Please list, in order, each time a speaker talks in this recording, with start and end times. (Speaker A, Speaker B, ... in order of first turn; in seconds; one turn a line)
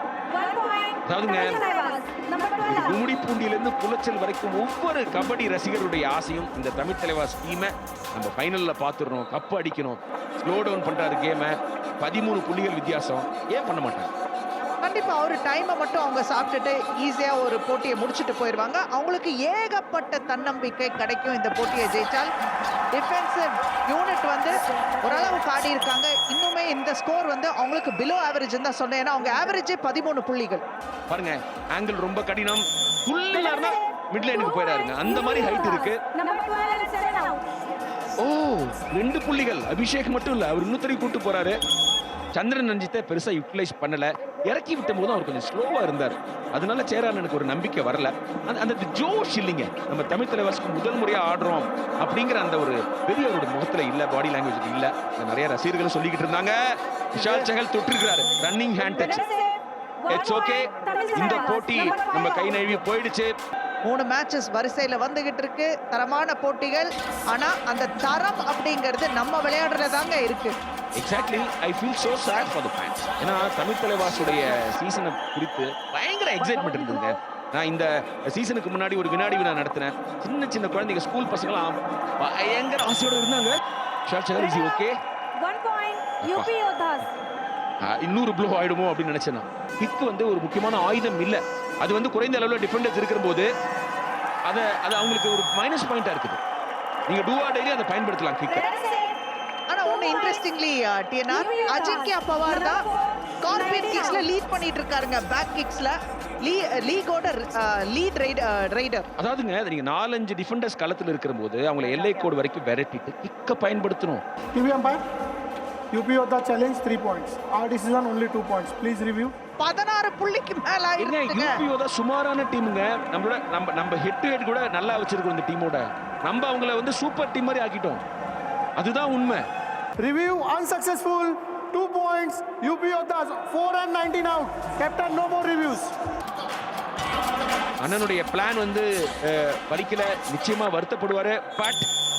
Speaker A: 0.4-0.9
Speaker B: 1.1-1.6
Speaker A: 1.8-2.5
Speaker B: 2.6-14.1
Speaker C: 14.8-22.3
Speaker C: 22.9-30.6
Speaker B: 31.1-36.0
Speaker A: 36.2-37.4
Speaker B: 38.2-41.6
Speaker B: 42.3-56.5
Speaker B: 57.1-59.2
Speaker B: 60.1-63.3
Speaker A: 60.9-61.1
Speaker C: 63.9-70.5
Speaker B: 71.0-85.0
Speaker A: 85.4-87.0
Speaker B: 86.2-86.5
Speaker B: 87.8-93.5
Speaker B: 94.5-96.4
Speaker B: 97.1-98.7
Speaker C: 99.7-102.8
Speaker C: 103.4-109.0
Speaker B: 109.2-114.2
Speaker D: 114.5-115.0
Speaker D: 115.9-119.3
Speaker C: 119.6-121.6
Speaker B: 121.0-128.0
Speaker B: 128.8-129.4
Speaker D: 130.0-135.9
Speaker B: 137.8-141.8